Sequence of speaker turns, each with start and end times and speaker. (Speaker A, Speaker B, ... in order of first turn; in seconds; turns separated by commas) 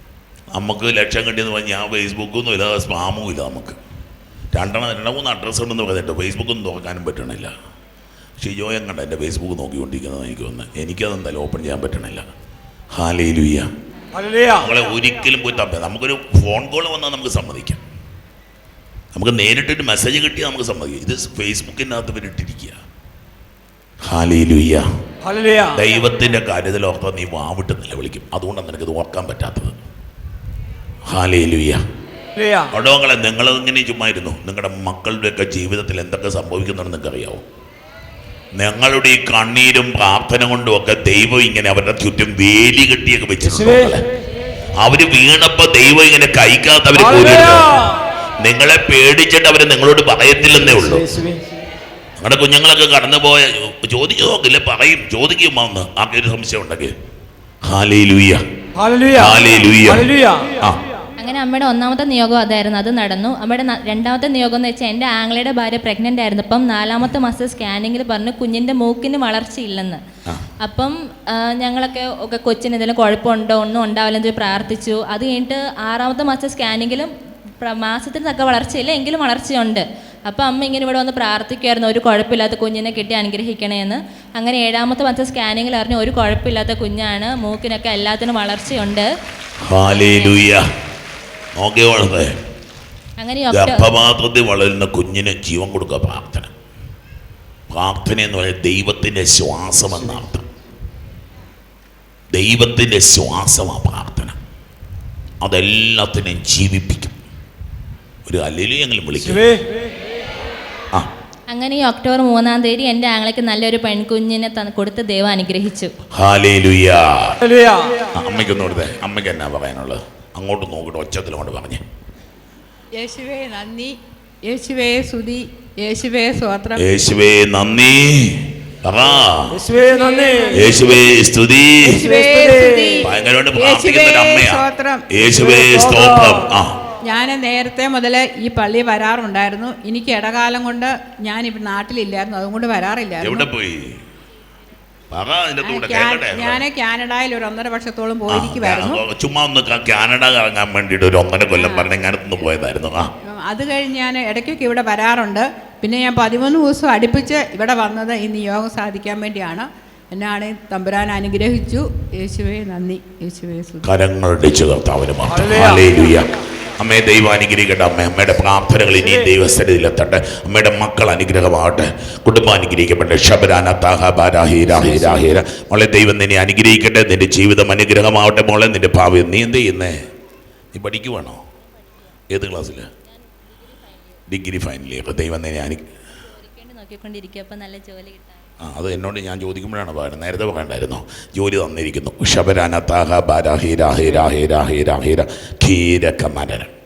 Speaker A: 0.5-3.8, Speaker A: 4.5-7.5, Speaker A: 8.4-12.3, Speaker A: 12.9-13.7, Speaker B: 14.2-14.6, Speaker A: 14.5-17.8, Speaker A: 19.1-22.8, Speaker A: 24.1-24.8, Speaker B: 25.2-25.8, Speaker A: 25.6-29.8, Speaker A: 31.1-31.8, Speaker A: 32.6-37.5, Speaker A: 38.6-44.0, Speaker A: 44.8-51.1, Speaker B: 50.8-51.4, Speaker A: 52.2-56.9, Speaker A: 57.7-58.4, Speaker B: 58.8-59.3, Speaker A: 59.1-60.8, Speaker B: 60.1-60.5, Speaker C: 61.2-70.0, Speaker C: 70.6-89.1, Speaker A: 89.7-90.6, Speaker C: 89.9-90.4, Speaker A: 91.6-92.3, Speaker C: 93.2-93.9, Speaker A: 93.5-96.5, Speaker A: 97.7-100.5, Speaker A: 102.3-104.4, Speaker A: 105.4-107.2, Speaker A: 108.2-109.5, Speaker C: 111.5-115.9, Speaker A: 116.2-117.4, Speaker B: 117.5-118.0, Speaker A: 118.1-121.8, Speaker D: 123.0-126.9, Speaker A: 126.8-129.6, Speaker B: 129.5-130.5, Speaker D: 129.9-130.8, Speaker A: 130.6-132.1, Speaker D: 131.8-135.1, Speaker B: 132.0-132.9, Speaker A: 133.0-136.8, Speaker B: 135.4-136.3, Speaker D: 137.0-143.5, Speaker A: 143.2-143.9, Speaker A: 145.1-146.6, Speaker D: 145.6-149.0, Speaker A: 148.3-153.1, Speaker D: 151.6-151.9, Speaker D: 153.3-163.9, Speaker A: 163.8-180.0, Speaker A: 180.7-181.4, Speaker A: 182.3-182.9, Speaker C: 183.7-184.0, Speaker A: 184.3-185.9, Speaker C: 186.3-188.5, Speaker A: 188.6-196.7